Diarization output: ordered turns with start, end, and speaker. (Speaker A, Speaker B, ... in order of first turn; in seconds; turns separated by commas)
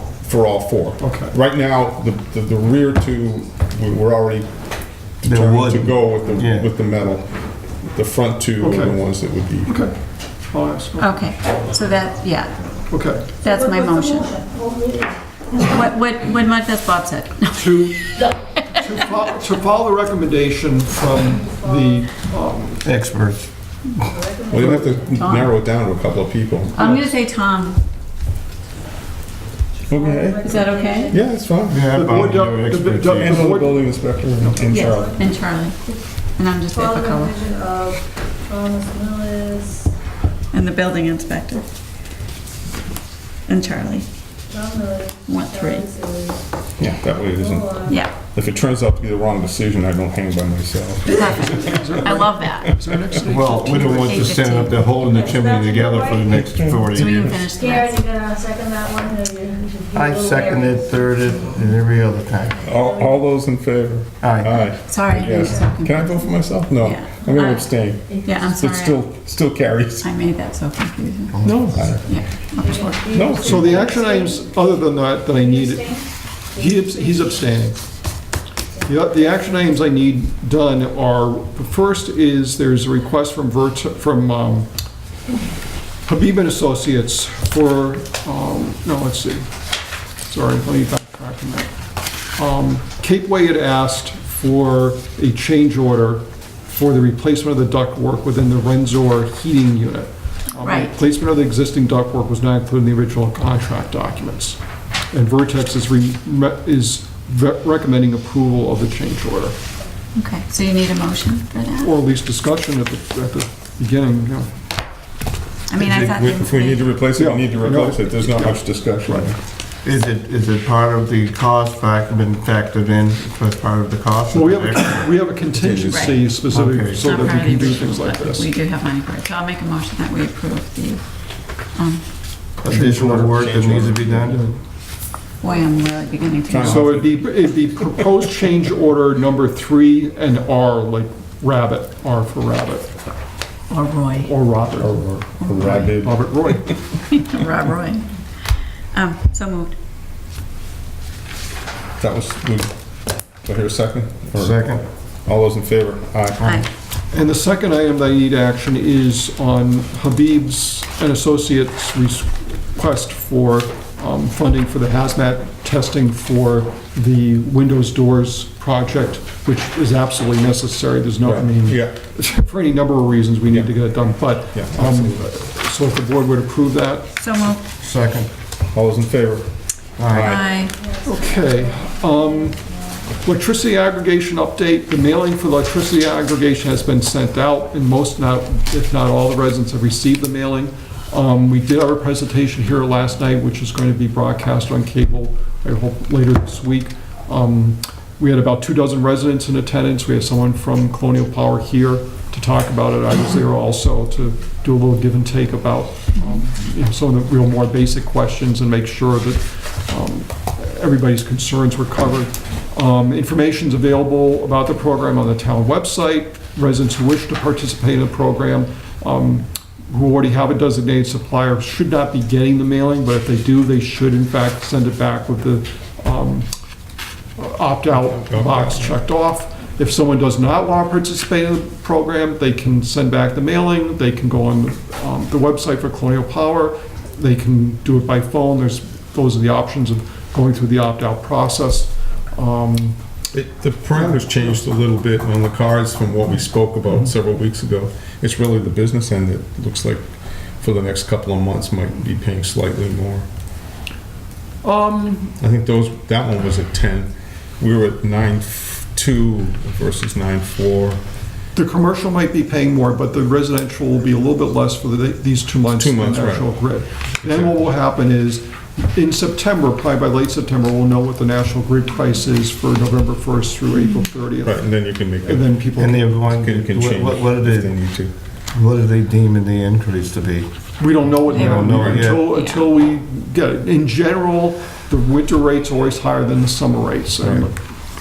Speaker A: 0.2-4.5, Speaker B: 1.0-1.4, Speaker A: 5.2-7.3, Speaker C: 5.3-6.7, Speaker A: 7.9-9.8, Speaker B: 8.6-9.0, Speaker B: 9.7-9.9, Speaker B: 10.5-11.1, Speaker D: 11.0-12.7, Speaker B: 12.9-13.3, Speaker D: 13.4-14.4, Speaker E: 13.4-15.6, Speaker D: 15.6-19.1, Speaker B: 17.6-18.1, Speaker B: 18.7-22.9, Speaker E: 21.0-22.1, Speaker C: 22.8-23.5, Speaker E: 23.9-25.2, Speaker A: 24.5-26.9, Speaker D: 25.1-25.5, Speaker D: 26.7-27.8, Speaker B: 26.8-27.1, Speaker E: 29.8-31.3, Speaker A: 29.9-30.5, Speaker D: 30.4-31.1, Speaker A: 31.1-31.9, Speaker C: 31.7-33.6, Speaker B: 31.9-34.7, Speaker A: 33.1-35.2, Speaker E: 34.6-36.2, Speaker D: 34.7-35.8, Speaker D: 36.4-37.4, Speaker E: 36.7-39.9, Speaker D: 40.5-41.6, Speaker D: 43.5-44.1, Speaker E: 44.5-46.5, Speaker D: 45.3-45.9, Speaker A: 46.8-52.2, Speaker E: 47.3-48.1, Speaker D: 47.9-48.1, Speaker D: 51.1-52.8, Speaker B: 51.1-54.5, Speaker C: 53.3-57.4, Speaker D: 53.4-55.0, Speaker E: 55.0-56.9, Speaker A: 56.3-57.4, Speaker D: 56.9-58.0, Speaker E: 57.5-61.8, Speaker C: 59.9-62.6, Speaker E: 62.5-63.2, Speaker A: 62.6-70.1, Speaker C: 64.2-64.5, Speaker D: 64.8-66.2, Speaker D: 66.8-67.7, Speaker D: 68.2-69.0, Speaker D: 70.0-72.9, Speaker C: 71.3-71.8, Speaker B: 71.4-71.8, Speaker A: 71.7-72.2, Speaker E: 72.6-74.7, Speaker B: 72.7-77.8, Speaker A: 73.1-73.8, Speaker E: 75.5-76.0, Speaker E: 76.6-77.3, Speaker B: 78.8-84.7, Speaker B: 86.0-89.5, Speaker B: 90.3-91.7, Speaker B: 92.4-104.6, Speaker D: 100.6-101.0, Speaker B: 105.1-109.6, Speaker D: 110.2-111.9, Speaker B: 111.8-114.5, Speaker D: 115.7-117.0, Speaker A: 115.8-119.4, Speaker B: 117.1-119.3, Speaker C: 119.8-125.1, Speaker B: 124.3-128.5, Speaker A: 125.6-126.0, Speaker D: 125.7-126.3, Speaker C: 126.5-127.3, Speaker D: 126.8-131.0, Speaker D: 131.6-132.0, Speaker C: 132.6-134.4, Speaker A: 132.7-134.1, Speaker B: 134.1-134.6, Speaker D: 135.4-137.0, Speaker A: 136.5-137.3, Speaker B: 136.6-143.0, Speaker D: 143.7-144.4, Speaker B: 144.3-146.8, Speaker A: 144.8-146.8, Speaker D: 145.4-145.9, Speaker D: 147.1-148.2, Speaker D: 148.9-149.8, Speaker A: 152.0-152.7, Speaker A: 153.4-156.6, Speaker C: 154.4-154.8, Speaker D: 156.4-156.7, Speaker B: 157.1-177.2, Speaker A: 171.2-172.0, Speaker A: 174.5-175.3, Speaker D: 177.2-177.6, Speaker C: 177.8-178.3, Speaker A: 178.7-179.5, Speaker C: 180.0-180.4, Speaker A: 180.0-180.5, Speaker D: 180.2-180.8, Speaker E: 180.6-183.0, Speaker B: 181.0-182.6, Speaker B: 183.1-226.5, Speaker B: 227.4-243.0, Speaker A: 227.9-229.0, Speaker A: 243.3-250.1, Speaker B: 243.9-244.5, Speaker A: 250.6-253.3, Speaker B: 254.6-255.4, Speaker A: 255.4-261.0, Speaker B: 261.6-274.7, Speaker A: 265.8-266.5, Speaker A: 267.2-267.7, Speaker A: 274.4-275.5, Speaker B: 275.2-276.1, Speaker C: 275.8-280.5, Speaker A: 276.1-278.1, Speaker B: 280.8-287.6, Speaker C: 281.3-282.3, Speaker D: 281.3-282.7, Speaker A: 281.7-282.1, Speaker A: 287.2-287.5